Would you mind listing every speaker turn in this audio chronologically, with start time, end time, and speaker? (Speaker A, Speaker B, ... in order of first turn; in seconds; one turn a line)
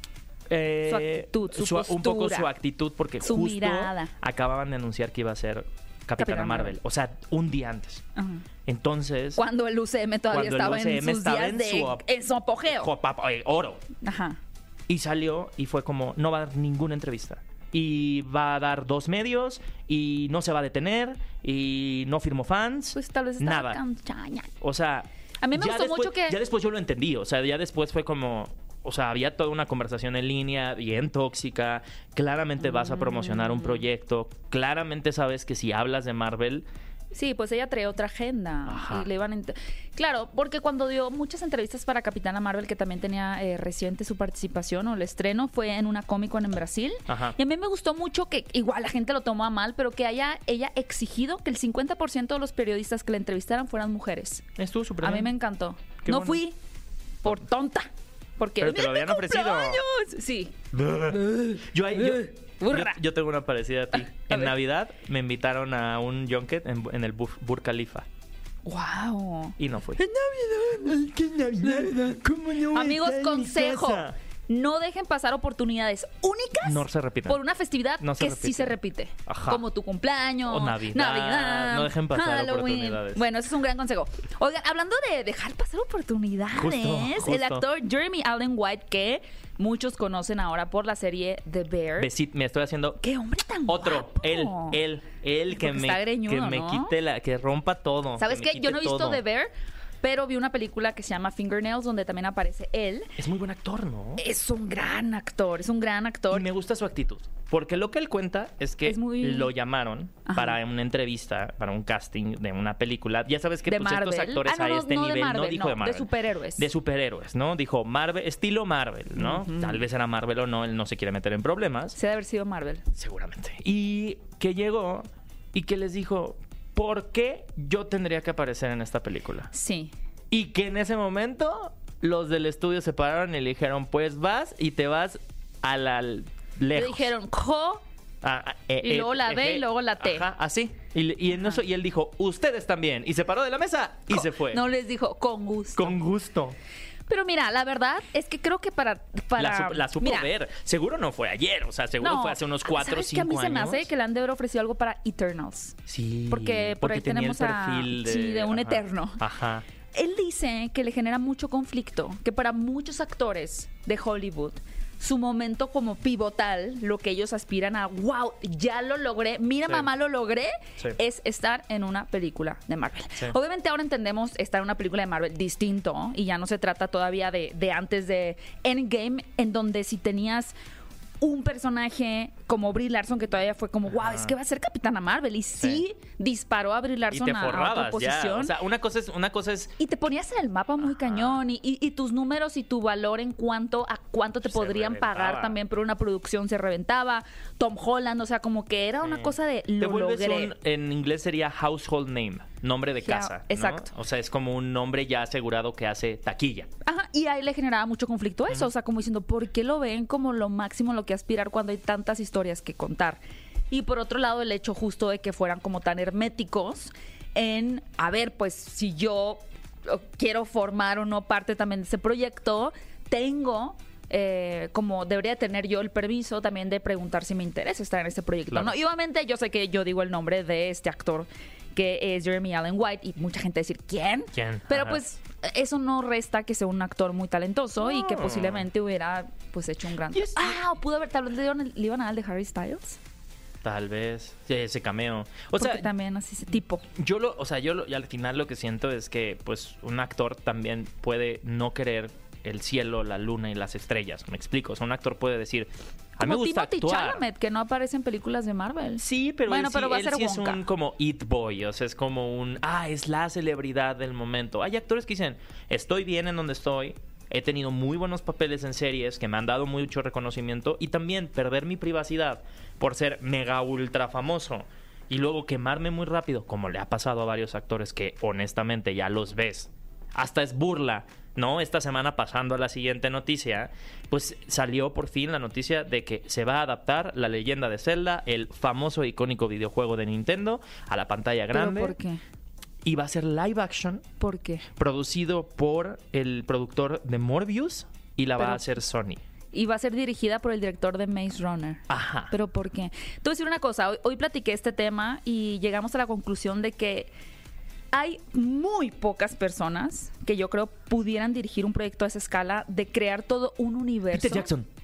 Speaker A: 0.5-8.0
Speaker B: 0.8-2.5
Speaker B: 3.2-4.1
Speaker B: 6.2-6.8
Speaker B: 8.2-8.4
Speaker A: 8.7-9.4
Speaker B: 9.3-12.9
Speaker A: 10.3-12.0
Speaker A: 12.7-13.8
Speaker B: 14.0-14.4
Speaker A: 14.9-23.8
Speaker B: 22.9-24.5
Speaker A: 24.6-36.6
Speaker B: 25.4-26.4
Speaker B: 32.6-33.8
Speaker B: 37.1-54.4
Speaker A: 38.6-39.1
Speaker A: 47.1-47.4
Speaker A: 54.5-55.3
Speaker B: 55.0-56.5
Speaker A: 56.0-56.4
Speaker B: 57.2-60.5
Speaker A: 58.6-59.8
Speaker A: 60.7-68.0
Speaker B: 62.0-63.0
Speaker B: 64.2-64.5
Speaker B: 68.7-71.0
Speaker A: 69.6-70.0
Speaker A: 70.8-74.1
Speaker B: 71.6-72.1
Speaker B: 72.7-92.1
Speaker A: 76.6-77.4
Speaker A: 78.0-78.7
Speaker A: 79.2-79.6
Speaker A: 80.4-83.2
Speaker A: 86.5-87.6
Speaker A: 92.0-93.0
Speaker B: 93.0-94.8
Speaker A: 93.7-99.2
Speaker B: 95.5-96.9
Speaker B: 98.2-99.5
Speaker B: 100.0-103.1
Speaker A: 103.2-104.2
Speaker B: 104.2-106.5
Speaker A: 106.3-122.0
Speaker B: 108.8-109.5
Speaker B: 110.2-110.6
Speaker B: 113.7-116.7
Speaker B: 119.2-119.8
Speaker B: 121.9-122.8
Speaker A: 122.9-129.5
Speaker B: 129.5-129.9
Speaker A: 130.3-137.1
Speaker B: 136.7-137.8
Speaker A: 138.2-144.6
Speaker B: 138.8-140.2
Speaker B: 144.1-145.9
Speaker A: 145.8-146.6
Speaker B: 147.1-150.3
Speaker A: 149.3-153.9
Speaker B: 152.0-155.8
Speaker A: 155.9-159.6
Speaker B: 156.3-159.2
Speaker B: 159.9-180.5
Speaker B: 181.2-188.5
Speaker A: 183.9-184.3
Speaker A: 187.1-189.7
Speaker B: 189.8-200.5
Speaker A: 190.8-191.4
Speaker A: 194.4-195.6
Speaker A: 199.0-206.7
Speaker B: 203.0-203.9
Speaker B: 206.8-243.0
Speaker A: 228.5-228.7
Speaker A: 234.3-235.0
Speaker A: 237.8-238.7
Speaker A: 240.1-240.6
Speaker A: 243.6-245.9
Speaker B: 245.6-246.8
Speaker A: 246.9-257.2
Speaker B: 256.2-260.6
Speaker A: 259.0-291.9
Speaker B: 291.5-292.2
Speaker A: 292.8-294.1
Speaker B: 294.2-294.6
Speaker A: 294.8-299.2
Speaker B: 298.4-298.6
Speaker B: 299.5-307.1
Speaker A: 301.9-302.3
Speaker B: 307.9-314.5
Speaker A: 314.1-314.7